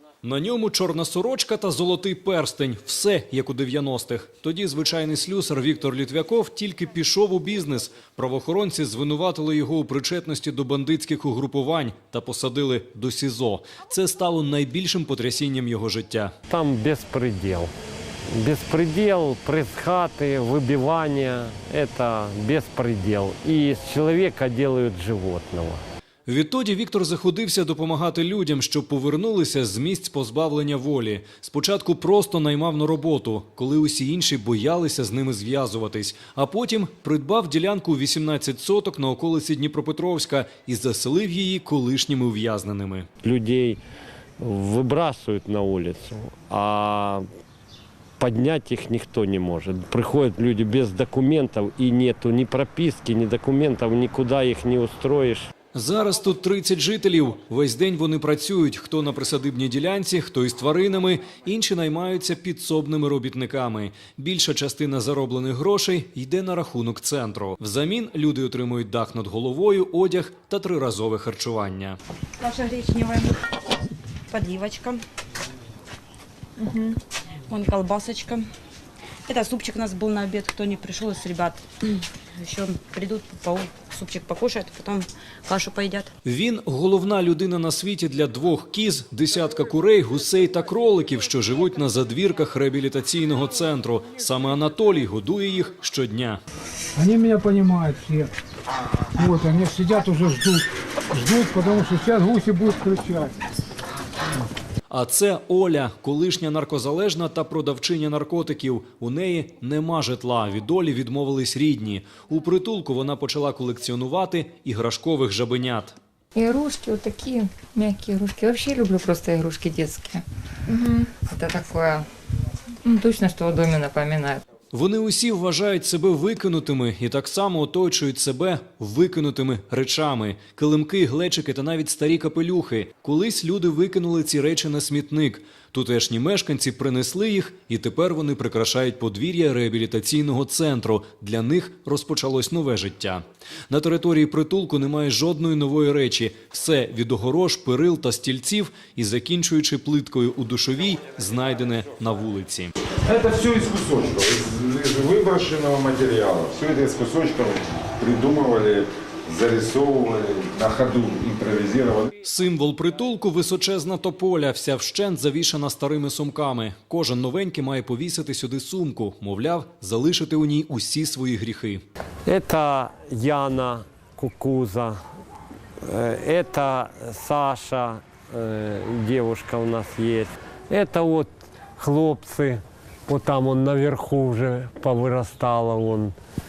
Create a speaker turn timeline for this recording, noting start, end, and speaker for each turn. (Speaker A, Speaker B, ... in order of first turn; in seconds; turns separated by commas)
Speaker A: 0.2-16.3, Speaker B: 16.5-17.7, Speaker B: 18.3-25.8, Speaker A: 26.3-43.0, Speaker B: 43.2-43.8, Speaker B: 44.4-47.2, Speaker B: 48.2-55.5, Speaker A: 55.7-72.0, Speaker C: 72.4-73.3, Speaker C: 74.3-75.0, Speaker C: 77.5-78.5, Speaker C: 79.3-86.1, Speaker A: 86.2-96.4, Speaker D: 97.0-98.3, Speaker D: 99.2-103.3, Speaker A: 104.9-116.0, Speaker E: 116.3-122.0, Speaker E: 122.8-124.4, Speaker A: 124.7-152.7, Speaker F: 153.0-162.1, Speaker A: 162.2-171.8, Speaker B: 172.3-175.0, Speaker B: 175.8-186.1